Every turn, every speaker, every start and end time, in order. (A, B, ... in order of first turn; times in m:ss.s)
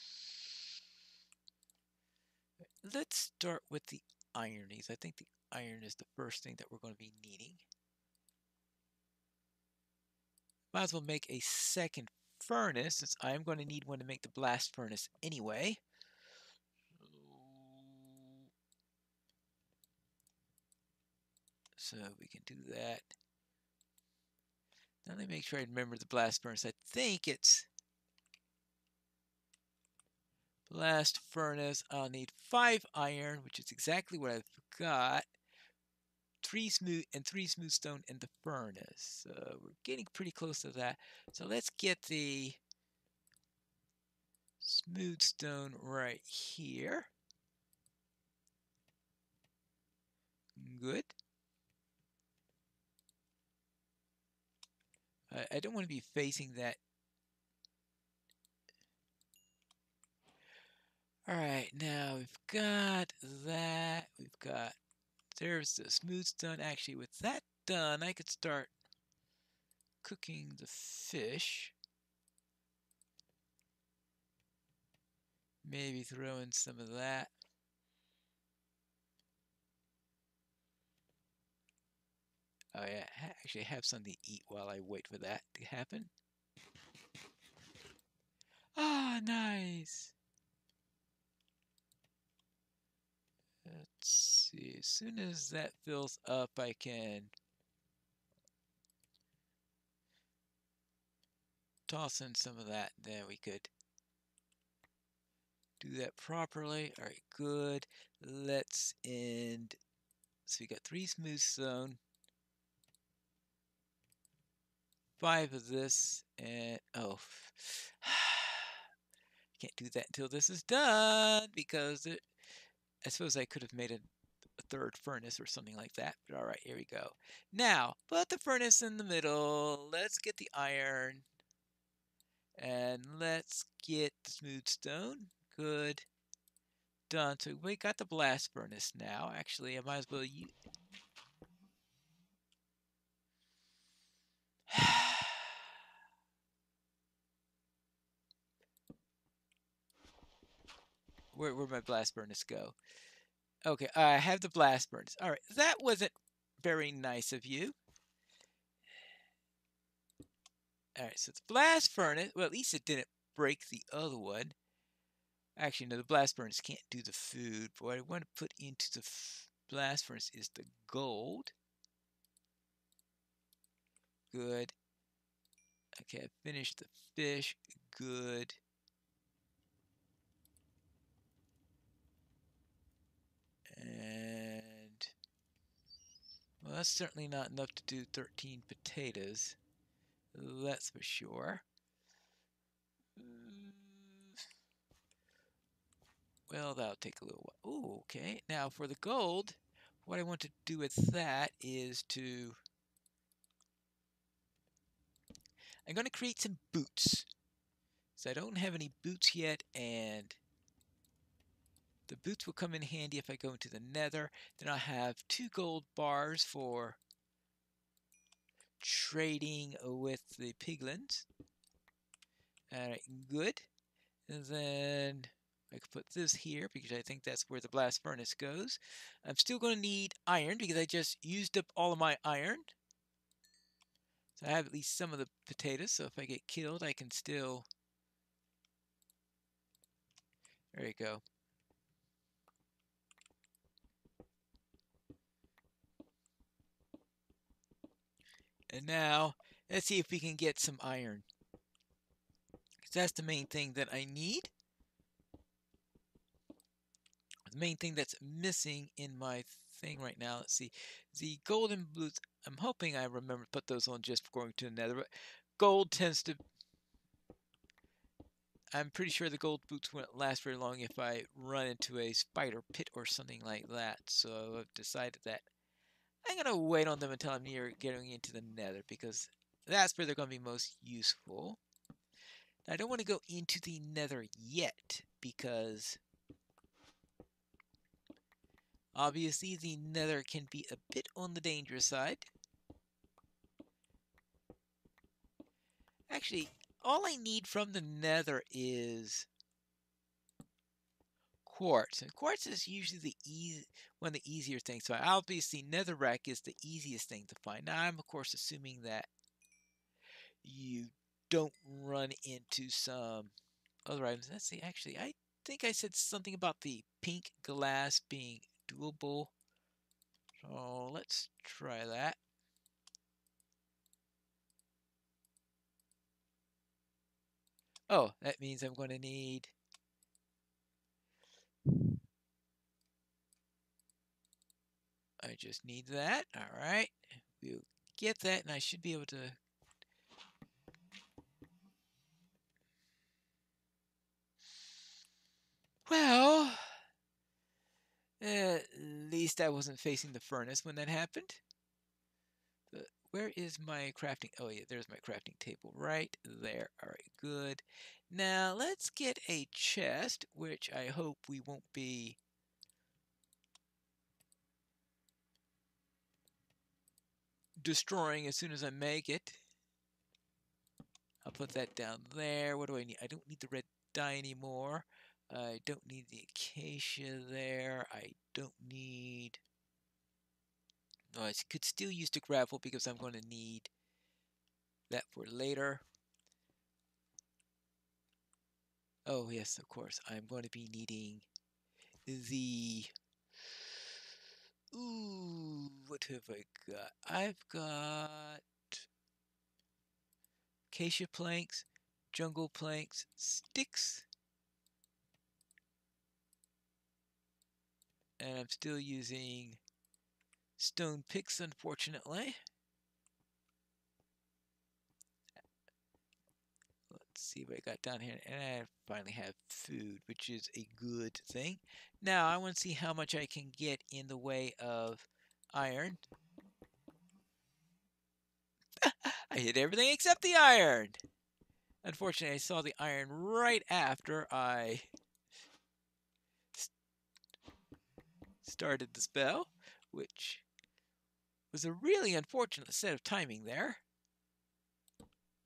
0:02.8-0:07.6 A
0:10.7-0:15.8 A
0:17.1-0:18.2 A
0:21.8-0:23.1 A
0:25.0-0:27.7 A
0:30.7-0:35.2 A
0:36.4-0:42.6 A
0:44.6-0:47.1 A
0:50.6-0:51.1 A
0:55.3-0:56.8 A
1:01.2-1:04.7 A
1:05.3-1:08.7 A
1:10.0-1:11.7 A
1:15.6-1:17.3 A
1:22.7-1:26.1 A
1:28.8-1:30.1 A
1:33.6-1:37.3 A
1:41.9-1:43.7 A
1:45.8-1:49.8 A
1:50.5-1:52.0 A
1:55.2-1:58.8 A
1:59.6-2:02.2 A
2:03.0-2:11.2 A
2:12.6-2:16.0 A
2:17.1-2:20.5 A
2:24.7-2:25.5 A
2:31.3-2:32.8 A
2:33.6-2:37.8 A
2:41.0-2:44.5 A
2:45.6-2:51.5 A
2:54.3-2:54.7 A
2:56.0-2:58.6 A
3:03.7-3:05.1 A
3:06.6-3:09.6 A
3:10.3-3:11.6 A
3:13.2-3:14.4 A
3:16.5-3:22.6 A
3:25.8-3:27.3 A
3:28.2-3:30.4 A
3:32.1-3:37.0 A
3:38.8-3:41.2 A
3:42.7-3:43.7 A
3:44.3-3:52.7 A
3:54.4-3:57.6 A
4:00.7-4:01.2 A
4:08.7-4:11.2 A
4:12.8-4:14.5 A
4:17.5-4:26.4 A
4:28.7-4:35.4 A
4:36.2-4:41.6 A
4:42.6-4:46.0 A
4:48.9-4:52.3 A
4:56.1-4:59.3 A
5:01.4-5:09.1 A
5:10.4-5:13.3 A
5:13.8-5:19.3 A
5:20.4-5:22.2 A
5:27.9-5:29.5 A
5:35.2-5:39.4 A
5:45.9-5:46.8 A
5:48.2-5:51.4 A
5:52.7-6:02.2 A
6:07.6-6:09.4 A
6:11.2-6:19.4 A
6:21.1-6:23.7 A
6:24.9-6:25.8 A
6:29.0-6:31.2 A
6:32.0-6:32.9 A
6:34.7-6:38.8 A
6:40.7-6:44.0 A
6:48.2-6:49.6 A
6:50.6-6:52.4 A
6:56.9-7:06.0 A
7:08.8-7:11.0 A
7:11.8-7:14.9 A
7:18.4-7:20.4 A
7:21.5-7:23.8 A